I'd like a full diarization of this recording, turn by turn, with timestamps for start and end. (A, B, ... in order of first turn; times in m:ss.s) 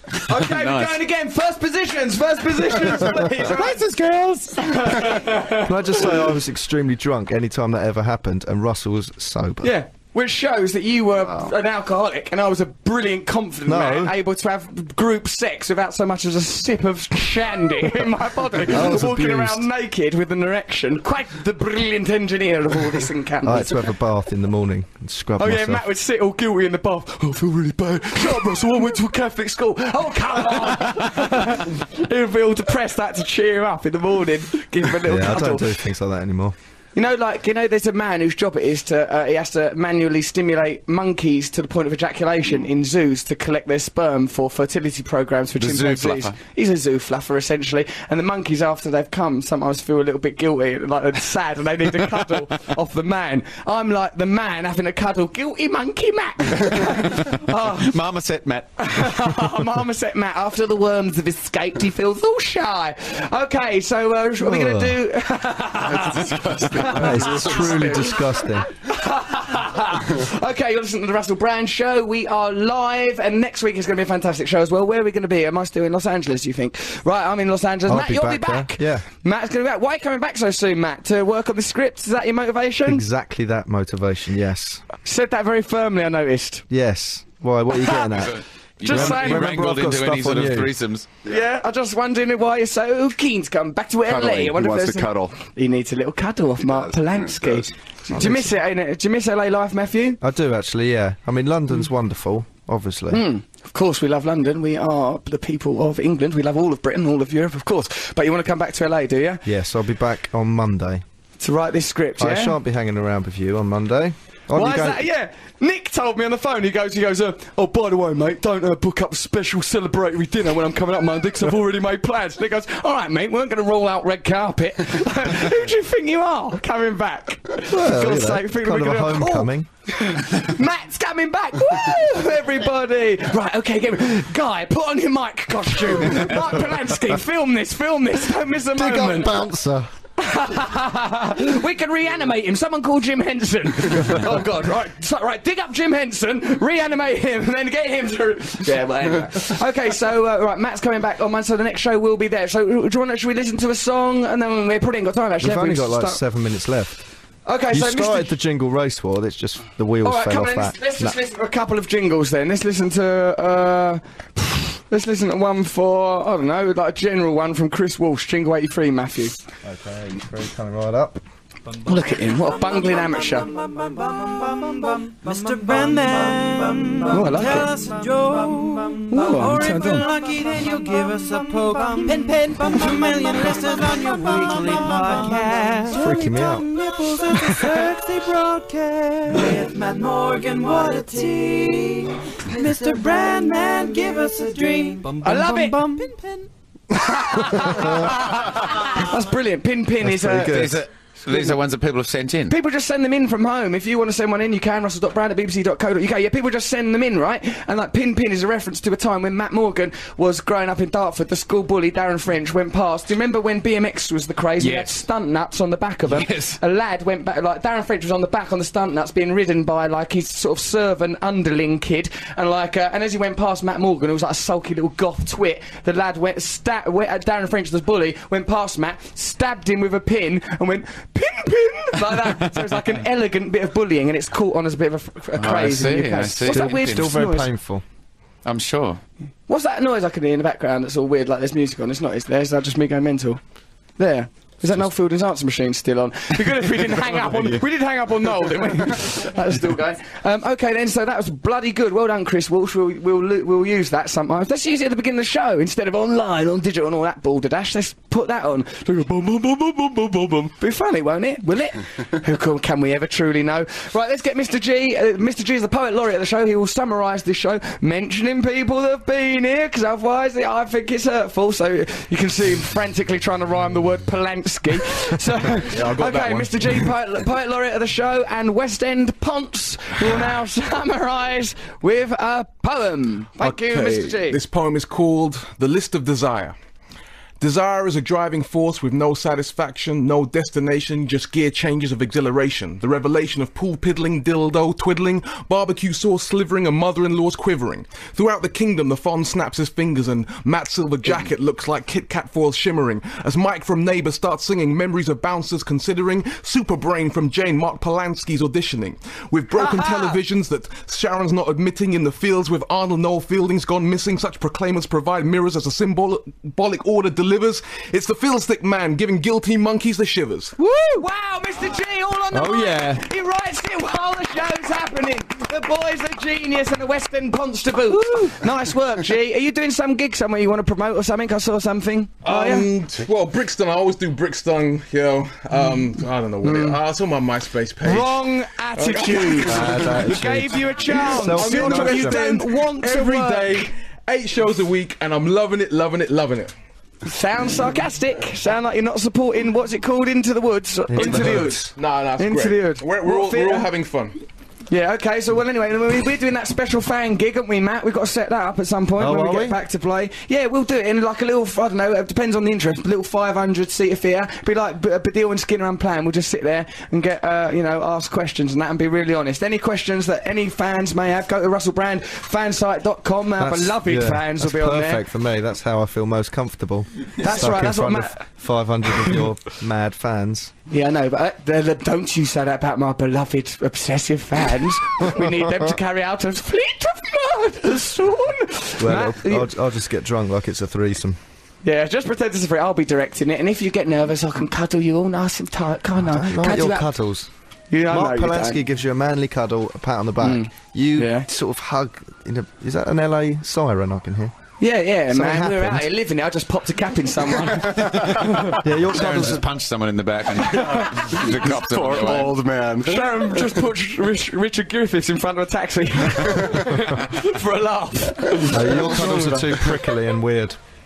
0:00.2-0:03.8 A
0:00.3-0:01.0 B
0:02.9-0:04.9 B
0:04.6-0:06.0 A
0:05.5-0:09.7 C
0:09.6-0:23.8 A
0:13.7-0:14.2 C
0:18.7-0:19.7 C
0:23.4-0:25.8 C
0:25.4-0:35.8 A
0:35.0-0:36.6 C
0:37.0-0:57.9 A
0:45.6-0:46.4 B
0:56.9-0:58.9 B
0:58.8-1:23.0 A
1:04.4-1:05.0 C
1:05.8-1:07.7 D
1:06.9-1:08.7 C
1:17.9-1:19.1 C
1:22.8-1:24.8 C
1:25.0-1:26.6 A
1:26.7-1:30.8 C
1:28.3-1:31.1 B
1:28.8-1:29.5 A
1:31.2-1:40.2 A
1:34.0-1:35.4 D
1:36.6-1:37.7 D
1:38.1-1:38.5 C
1:40.2-1:43.2 C
1:43.1-1:49.4 A
1:49.4-1:51.0 C
1:51.4-1:52.6 A
1:52.2-1:55.0 C
1:54.5-2:19.4 A
2:07.6-2:09.7 C
2:18.7-2:19.9 C
2:20.2-2:36.2 A
2:35.4-2:37.0 C
2:37.5-2:38.3 A
2:37.7-2:41.2 C
2:40.0-2:49.4 A
2:49.6-2:51.2 C
2:51.9-2:53.5 A
2:52.5-3:16.5 E
2:57.1-2:57.7 A
2:59.1-3:00.1 A
3:05.9-3:06.7 C
3:07.4-3:07.7 A
3:15.2-3:16.0 A
3:16.9-3:20.7 A
3:17.4-3:18.1 E
3:20.0-3:21.6 C
3:20.4-3:22.6 B
3:22.5-3:57.5 A
3:34.6-3:35.0 B
3:36.1-3:36.6 B
3:55.4-3:57.3 B
3:56.5-3:57.8 C
3:58.4-3:59.0 B
3:59.5-4:03.4 A
4:04.0-4:44.4 A
4:35.6-4:36.9 F
4:43.4-4:46.6 F
4:47.4-5:20.6 F
5:09.6-5:10.1 A
5:20.6-5:32.7 A
5:22.3-5:23.0 C
5:32.2-5:40.0 F
5:36.4-5:36.8 A
5:37.8-5:43.7 A
5:39.5-5:42.3 C
5:41.2-5:46.5 F
5:47.0-5:53.7 A
5:50.9-5:51.7 C
5:51.0-5:54.2 F
5:54.7-6:15.0 A
5:59.0-5:59.6 C
6:13.4-6:20.5 C
6:17.2-6:18.2 A
6:20.7-6:29.5 A
6:28.8-6:31.2 C
6:31.6-6:36.9 A
6:36.0-6:37.3 C
6:37.7-6:38.6 A
6:37.9-6:44.4 C
6:40.2-6:41.2 A
6:44.6-6:48.6 A
6:45.1-6:45.9 C
6:48.6-6:49.5 C
6:48.8-6:52.4 B
6:50.5-6:51.4 A
6:51.2-6:53.5 D
6:52.8-6:59.9 A
6:56.3-6:56.7 D
6:58.5-7:00.6 C